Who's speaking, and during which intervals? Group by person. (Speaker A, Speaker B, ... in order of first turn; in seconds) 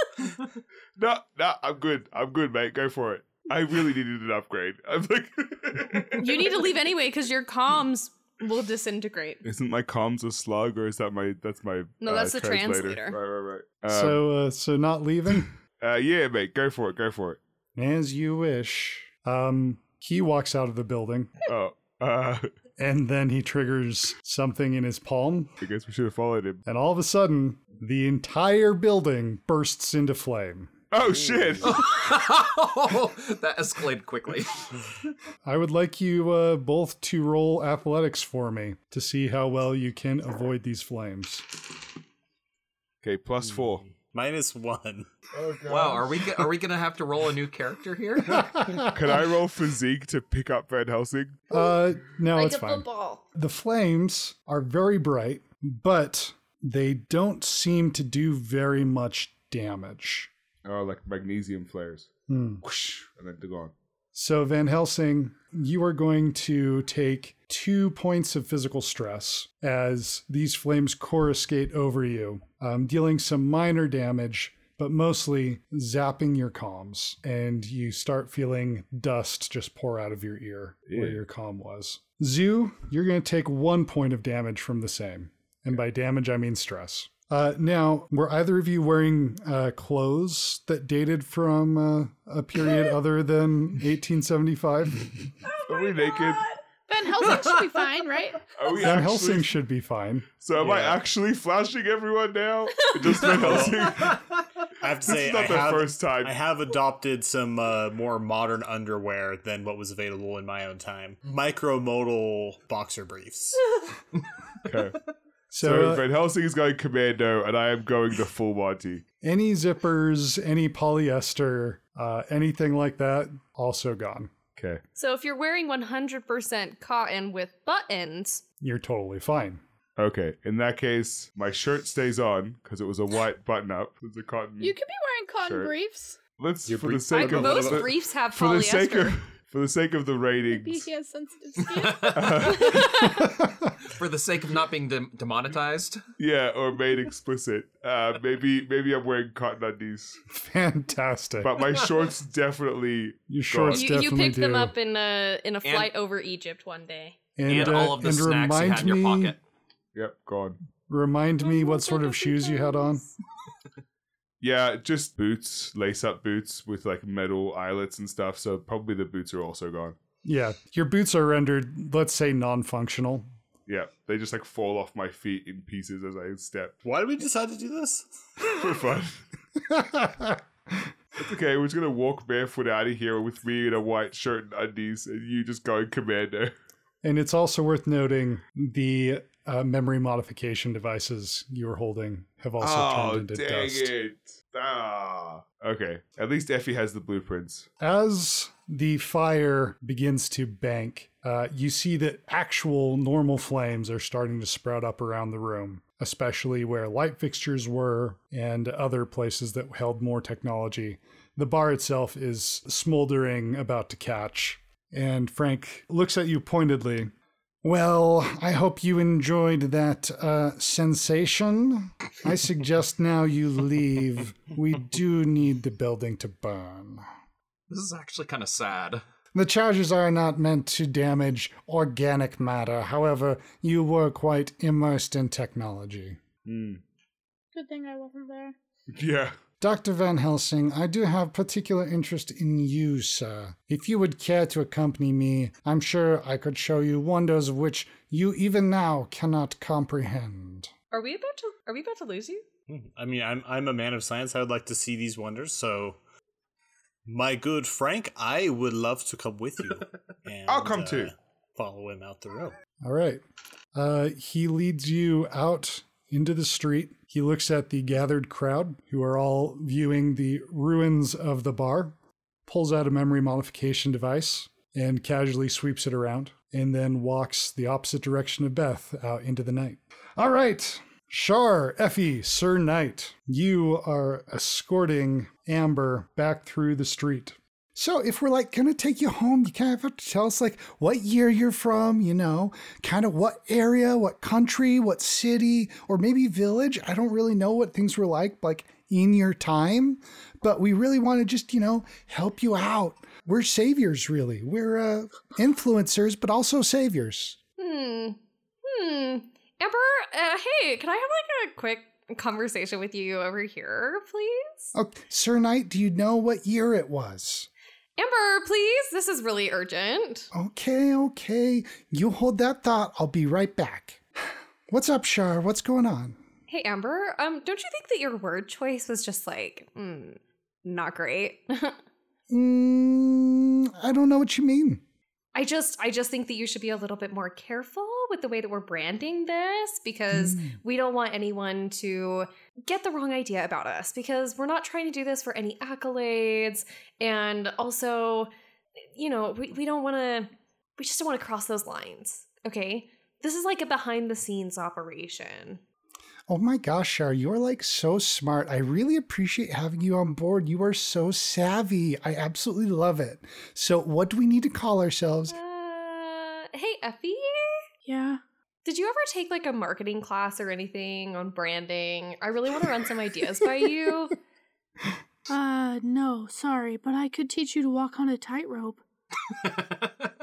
Speaker A: 1.0-6.5, 9.4-14.2, 15.8-17.4, 21.4-22.5, 25.6-26.6, 30.9-31.8, 43.0-43.9, 45.3-46.2, 48.9-51.4, 60.6-62.1, 62.6-63.7, 80.9-81.2, 95.7-96.5, 98.5-99.5, 100.4-104.3, 105.0-106.4, 114.6-115.0, 115.6-119.0, 124.6-124.8, 130.0-134.8, 135.4-135.7, 136.4-140.8, 142.1-143.1, 146.2-150.2, 151.4-153.9, 159.9-160.6, 164.4-170.0, 173.7-176.8, 178.4-179.2, 181.2-186.5, 192.6-197.7, 236.4-236.8, 238.9-239.3, 260.4-261.1
Speaker B: 6.2-9.4, 12.0-13.2, 52.3-53.2, 125.0-128.4, 137.1-139.2, 153.7-157.2, 161.5-163.0, 250.9-252.4, 307.6-314.7, 318.0-320.3, 326.5-331.8, 335.3-348.3, 348.9-355.6, 365.3-367.6, 368.6-374.1
Speaker C: 13.9-15.5, 17.7-21.3, 22.8-25.5, 26.6-30.7, 35.4-41.6, 51.5-60.3, 62.3-62.6, 64.1-95.3, 98.8-100.3, 115.5-116.0, 119.2-124.3, 128.6-129.6, 143.2-143.5, 150.3-151.5, 153.3-154.7, 157.4-159.3, 160.9-163.0, 170.2-173.2, 179.7-180.8, 187.0-193.9, 197.8-217.1, 217.6-227.0, 229.3-236.2, 239.6-250.7, 262.8-263.2, 263.7-271.9, 272.5-307.4, 314.7-317.5, 320.3-324.0, 324.7-326.2, 332.3-334.8, 340.1-340.6, 356.3-365.3
Speaker D: 31.6-34.8, 45.7-48.8, 141.6-142.3, 143.8-146.0, 155.6-155.9, 157.5-159.4, 227.7-229.0, 379.4-380.0
Speaker E: 43.9-45.1, 100.6-101.0, 103.0-104.2, 104.8-113.7, 136.7-137.9, 176.8-178.1, 252.7-256.0, 257.1-262.5
Speaker F: 95.8-96.3, 96.9-98.5, 134.6-136.2, 140.5-142.7, 237.5-238.5, 367.8-368.2, 375.3-378.8